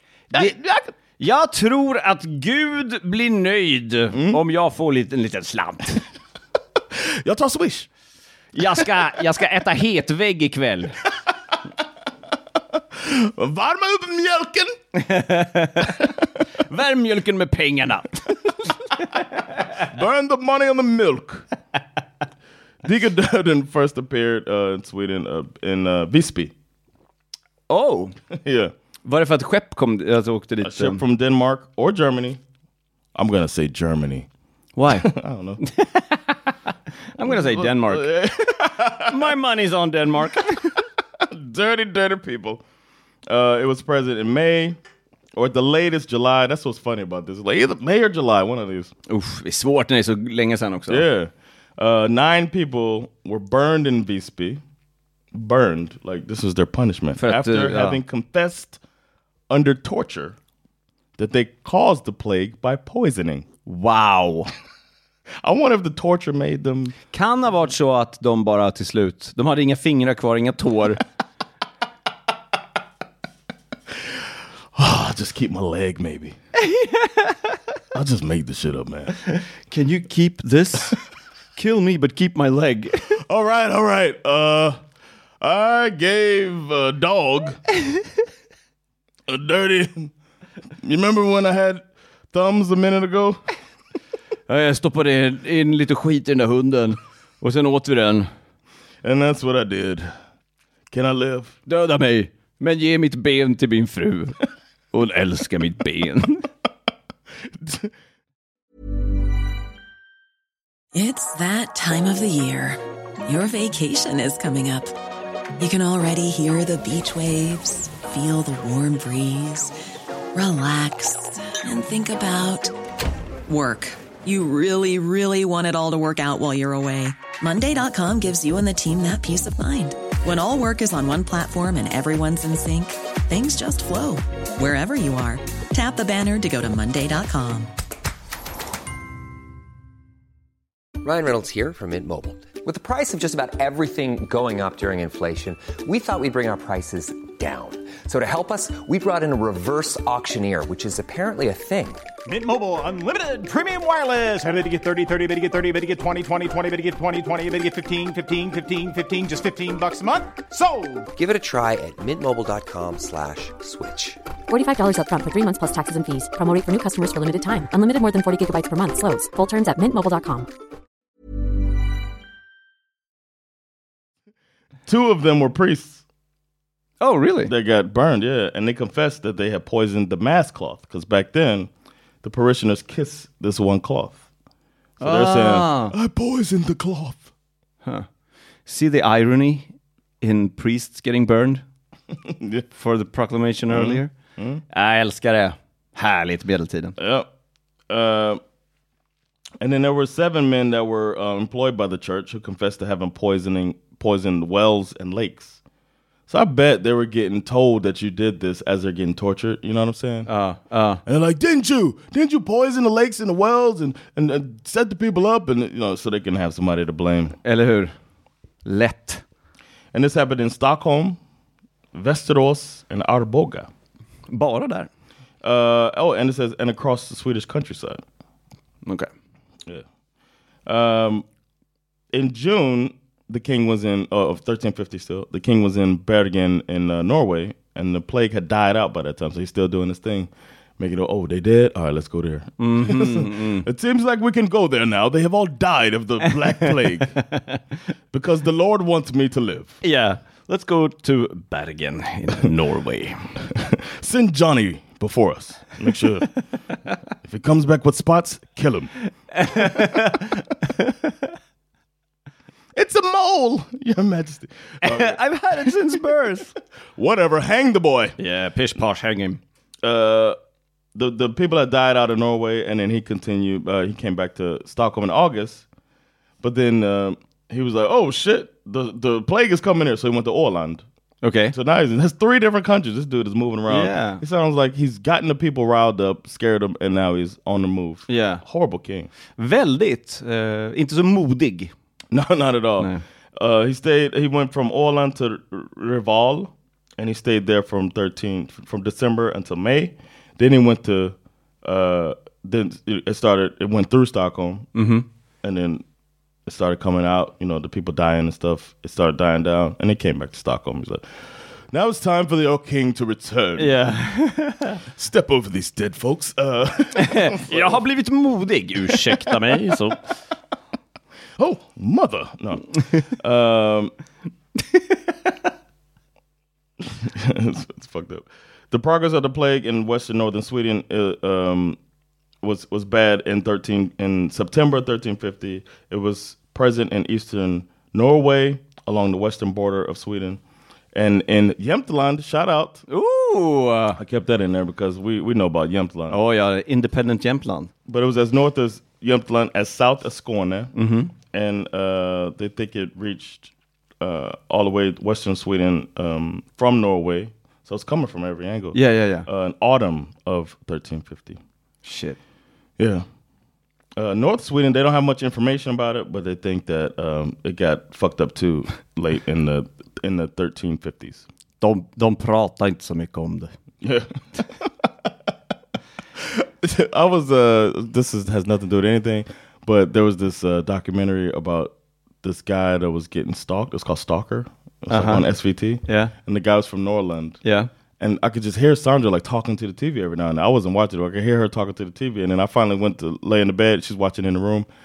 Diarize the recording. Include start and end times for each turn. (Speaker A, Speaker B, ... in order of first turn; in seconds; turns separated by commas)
Speaker A: 0.3-0.6, Speaker B: 0.3-0.9, Speaker A: 1.2-6.0, Speaker B: 4.1-4.4, Speaker B: 6.9-7.9, Speaker A: 8.5-11.0, Speaker B: 12.7-14.8, Speaker A: 14.9-19.7, Speaker B: 19.7-21.5, Speaker B: 22.8-26.5, Speaker A: 27.7-28.1, Speaker B: 28.3-28.7, Speaker A: 29.0-31.0, Speaker B: 30.6-32.4, Speaker B: 33.1-34.3, Speaker A: 34.8-36.5, Speaker B: 34.9-35.6, Speaker A: 37.1-40.8, Speaker B: 37.2-39.3, Speaker B: 41.2-42.6, Speaker B: 43.3-44.8, Speaker B: 45.4-48.9, Speaker A: 49.1-51.0, Speaker B: 50.9-54.6, Speaker B: 55.3-58.8, Speaker A: 57.1-58.0, Speaker B: 59.5-60.4, Speaker B: 61.2-63.5, Speaker A: 63.6-64.5, Speaker B: 65.4-67.0, Speaker A: 67.1-71.0, Speaker B: 74.7-76.3, Speaker A: 76.6-77.5, Speaker B: 77.9-79.2, Speaker A: 79.7-81.0, Speaker A: 81.5-83.2, Speaker B: 83.2-84.8, Speaker B: 85.4-87.6, Speaker B: 89.3-90.1, Speaker B: 90.8-93.4, Speaker A: 94.5-98.3, Speaker B: 99.0-100.1, Speaker B: 100.9-101.5, Speaker A: 101.7-104.4, Speaker A: 104.9-106.5, Speaker B: 107.6-107.9, Speaker C: 110.9-114.9, Speaker C: 115.6-119.7, Speaker C: 120.3-122.7, Speaker C: 123.5-137.7, Speaker D: 141.0-152.0, Speaker E: 152.2-161.1, Speaker D: 161.1-164.2, Speaker F: 164.5-170.5, Speaker B: 174.9-176.0, Speaker A: 177.0-177.5, Speaker B: 177.4-181.7, Speaker B: 182.2-184.2, Speaker B: 185.0-187.3, Speaker A: 185.0-185.9, Speaker A: 188.7-189.7, Speaker A: 190.2-191.6, Speaker B: 192.2-192.7, Speaker A: 192.7-194.1, Speaker B: 193.7-194.6, Speaker A: 194.7-196.9, Speaker B: 197.0-197.3, Speaker B: 197.9-198.4, Speaker B: 199.6-205.6, Speaker B: 206.3-210.3, Speaker A: 210.3-211.0, Speaker B: 211.0-217.3, Speaker A: 217.4-217.9, Speaker A: 218.6-219.2, Speaker B: 219.9-221.2, Speaker B: 221.9-223.7, Speaker A: 224.3-224.9, Speaker B: 225.4-228.0, Speaker B: 230.7-231.2, Speaker B: 232.1-247.2, Speaker A: 242.6-243.7, Speaker A: 246.3-247.6, Speaker B: 248.1-249.8, Speaker A: 249.8-253.4, Speaker B: 253.4-256.3, Speaker B: 257.2-258.9, Speaker A: 259.3-260.9, Speaker B: 259.5-260.2, Speaker B: 262.7-265.7, Speaker A: 264.8-266.6, Speaker B: 266.9-268.1, Speaker A: 268.2-269.4, Speaker B: 269.8-270.4, Speaker B: 270.9-275.6, Speaker B: 276.4-280.8, Speaker A: 281.2-281.5, Speaker B: 281.5-289.1, Speaker A: 283.7-284.2, Speaker A: 288.1-288.4, Speaker A: 289.4-291.7, Speaker B: 292.1-304.7, Speaker A: 304.7-305.1, Speaker B: 305.4-305.8, Speaker B: 306.4-311.0, Speaker B: 311.7-313.8, Speaker A: 313.6-314.8, Speaker B: 314.9-317.8, Speaker A: 316.9-320.0, Speaker B: 318.9-319.3, Speaker B: 321.4-323.9, Speaker B: 326.9-331.8, Speaker B: 332.4-340.4, Speaker B: 340.9-342.9, Speaker A: 342.9-344.0, Speaker B: 343.9-346.2, Speaker A: 346.1-347.7, Speaker B: 347.9-350.7, Speaker A: 350.8-351.1, Speaker B: 351.3-361.4, Speaker A: 358.7-359.3, Speaker A: 361.8-362.2, Speaker B: 362.8-363.0, Speaker B: 363.9-371.2, Speaker A: 371.6-373.5, Speaker B: 373.8-374.9, Speaker B: 376.1-387.4, Speaker A: 384.9-385.2, Speaker A: 385.8-386.1, Speaker A: 387.4-387.7, Speaker B: 388.0-394.7